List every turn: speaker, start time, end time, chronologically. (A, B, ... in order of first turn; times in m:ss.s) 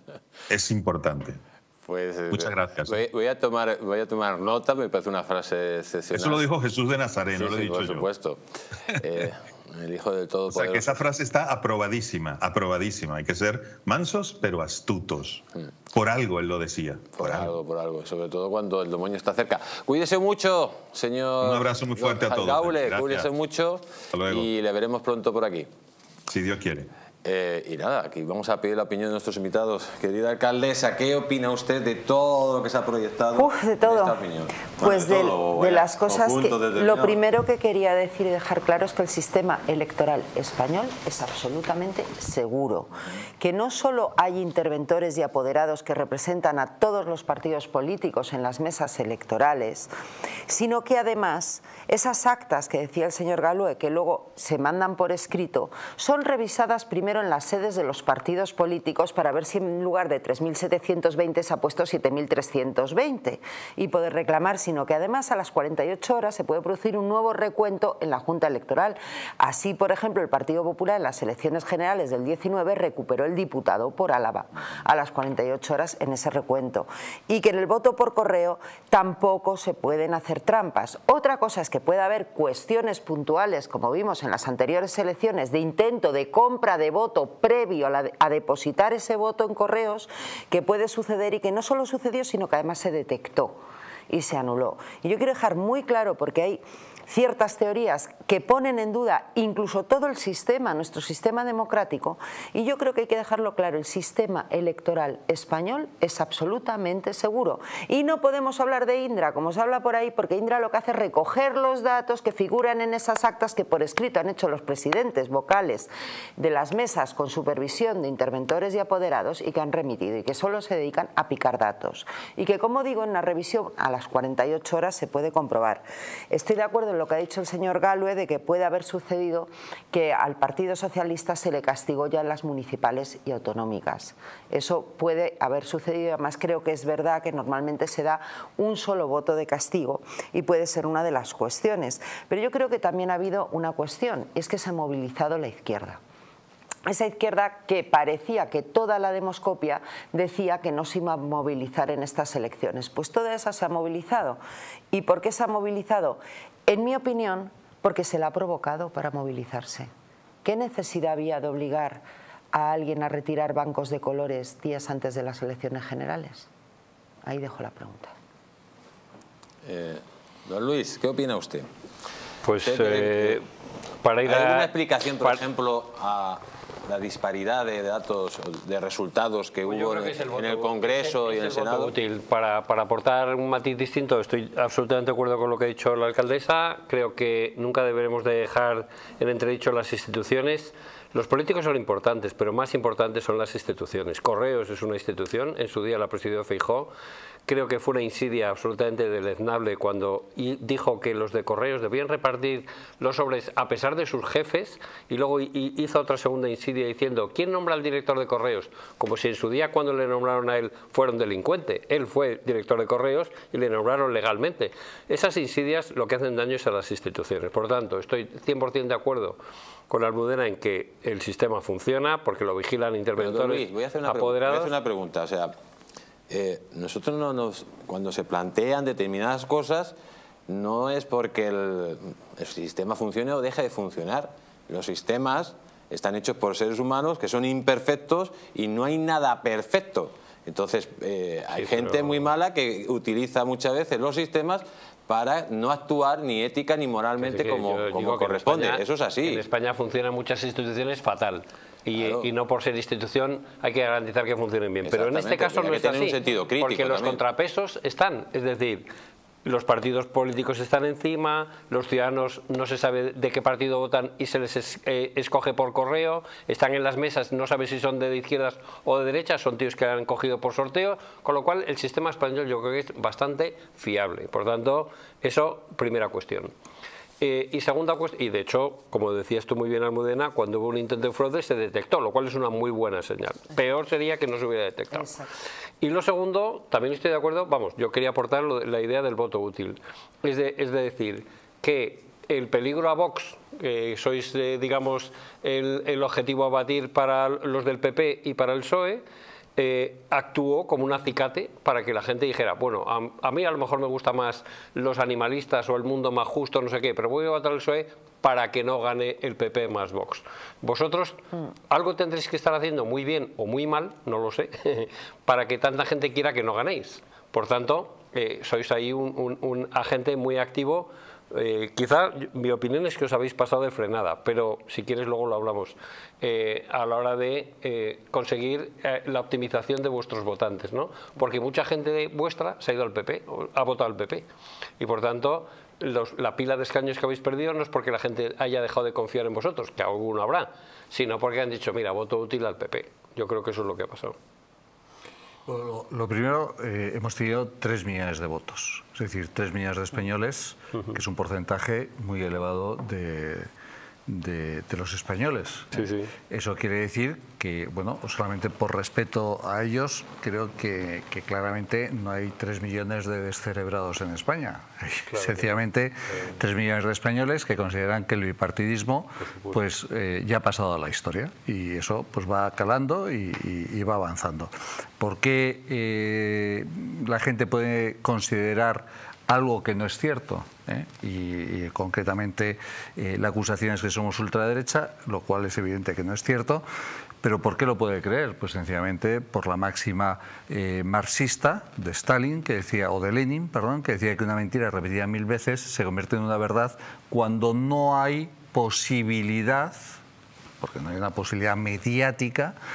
0:00.5-0:01.4 A
0:01.8-0:06.4 B
0:02.3-0:03.0 A
0:06.1-0:08.1 A
0:07.3-0:11.0 B
0:10.5-0:17.5 A
0:17.2-0:25.7 B
0:21.4-0:23.3 A
0:24.1-0:24.5 A
0:26.3-0:26.9 A
0:27.2-0:37.2 B
0:33.3-0:34.2 C
0:34.7-0:49.9 C
0:50.5-2:26.0 C
2:26.8-2:34.4 C
2:34.9-2:39.9 C
2:40.4-2:46.5 C
2:47.2-2:48.1 C
2:49.6-2:51.7 B
2:52.4-2:53.4 D
2:52.6-2:53.4 B
2:54.0-2:54.7 D
2:54.2-3:01.9 B
2:59.6-3:16.9 D
3:17.5-3:39.4 D
3:39.9-3:44.7 D
3:43.2-3:45.5 B
3:46.3-3:50.0 B
3:50.5-4:09.4 B
4:01.6-4:02.3 D
4:07.2-4:18.9 D
4:12.0-4:12.3 B
4:14.8-4:17.2 B
4:19.4-4:36.5 D
4:37.2-4:45.1 D
4:44.9-4:45.3 C
4:45.8-4:59.0 D
4:59.6-5:34.3 D
5:34.8-5:44.2 D
5:45.5-5:53.5 E
5:54.1-6:26.6 E
5:55.7-5:56.1 D
6:05.1-6:05.5 D
6:27.2-6:40.0 E
6:40.6-6:42.5 E